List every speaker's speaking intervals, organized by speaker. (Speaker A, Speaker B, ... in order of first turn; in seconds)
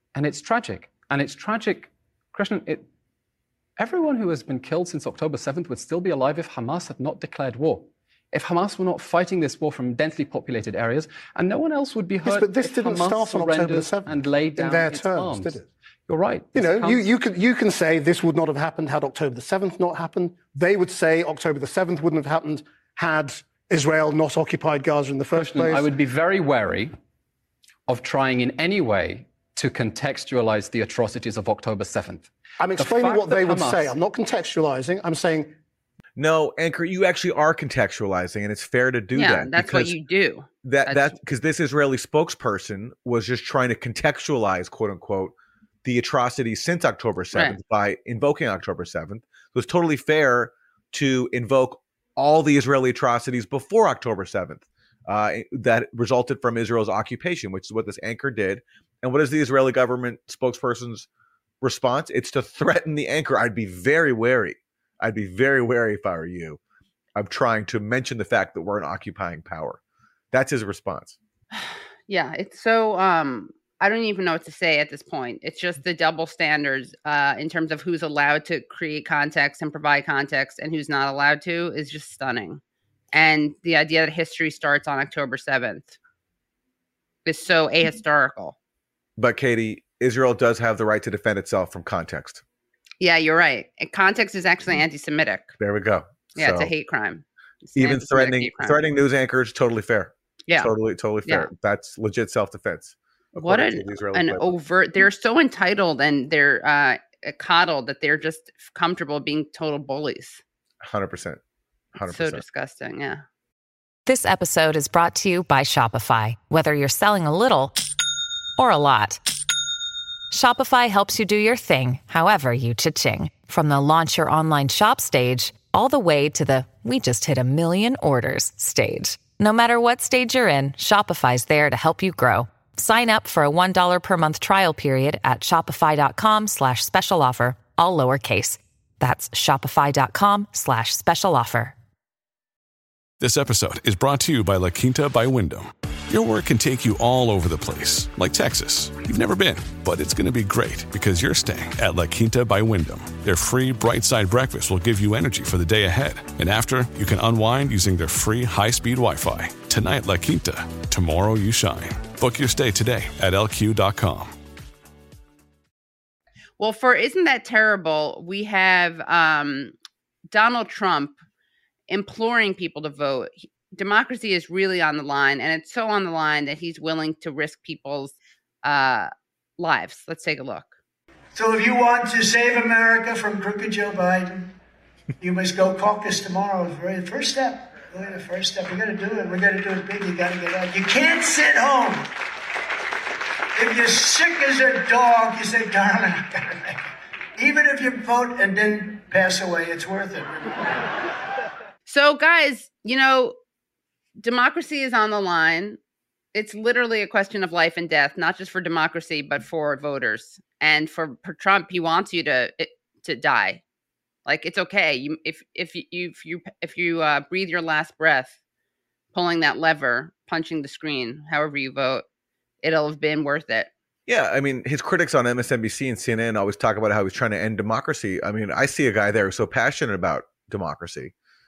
Speaker A: 0.1-2.9, 3.8-17.1, 25.3-26.9, 27.9-34.0
Speaker B: 12.2-15.7, 16.5-25.9, 32.6-35.5
Speaker C: 36.1-39.9, 40.6-61.1, 61.6-66.6, 67.1-69.8, 70.3-71.2, 89.2-92.4, 95.6-96.7, 97.8-104.5, 110.8-111.4, 111.9-112.4, 224.1-231.1
Speaker D: 39.1-41.2, 71.5-86.0, 87.2-88.5, 93.0-95.5, 96.3-98.9, 103.4-110.4, 112.1-113.2, 166.6-169.8, 170.3-171.2, 171.9-180.7, 201.8-203.3, 204.2-205.8, 206.3-213.6, 214.2-218.4, 219.1-222.0, 222.6-223.7
Speaker E: 114.0-117.7, 118.6-119.2, 120.3-141.8
Speaker F: 143.2-164.3
Speaker G: 181.3-184.5, 185.2-192.1, 193.6-196.8, 197.4-200.7